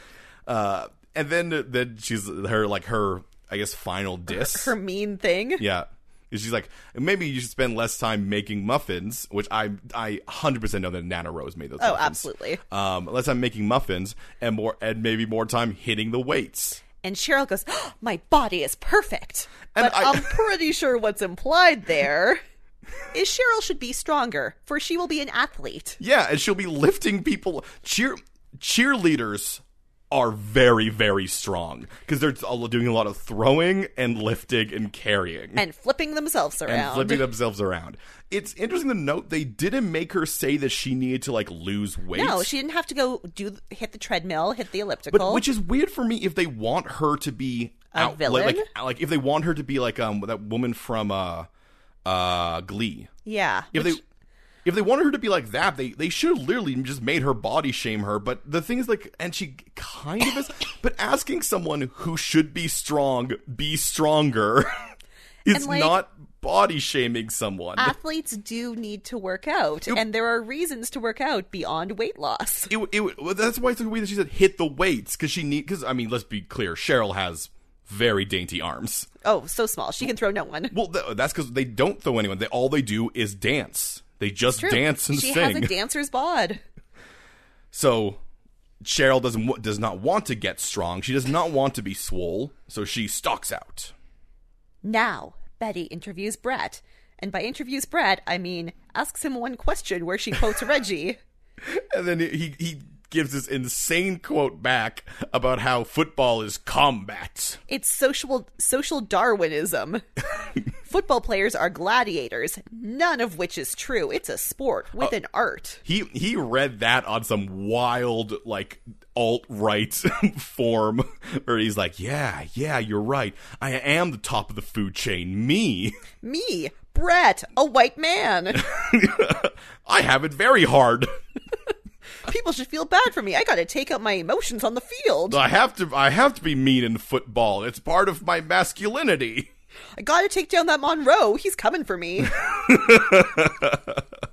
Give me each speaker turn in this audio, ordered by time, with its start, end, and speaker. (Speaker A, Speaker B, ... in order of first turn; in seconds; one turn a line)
Speaker A: 0.5-4.7
Speaker B: 4.3-5.6
Speaker A: 5.6-16.8
Speaker B: 11.8-12.6
Speaker B: 17.0-22.4
Speaker A: 19.7-20.4
Speaker B: 23.1-26.0
Speaker A: 26.0-35.6
Speaker B: 35.6-37.2
Speaker A: 36.6-42.5
Speaker B: 42.1-45.4
Speaker A: 45.1-51.5
Speaker B: 47.9-48.7
Speaker A: 52.0-53.1
Speaker B: 53.2-54.0
Speaker A: 53.7-54.0
Speaker A: 54.6-64.8
Speaker A: 65.5-67.9
Speaker B: 65.5-66.0
Speaker B: 67.8-72.7
Speaker A: 72.7-79.1
Speaker B: 79.2-80.7
Speaker A: 80.7-85.7
Speaker B: 84.6-86.6
Speaker A: 87.7-88.2
Speaker A: 88.8-93.9
Speaker B: 94.8-101.2
Speaker A: 101.6-107.6
Speaker B: 107.7-110.0
Speaker B: 110.8-115.8
Speaker A: 115.8-126.0
Speaker B: 126.2-128.6
Speaker A: 128.5-131.1
Speaker B: 132.2-135.4
Speaker A: 135.3-139.5
Speaker B: 140.0-142.3
Speaker A: 142.3-144.0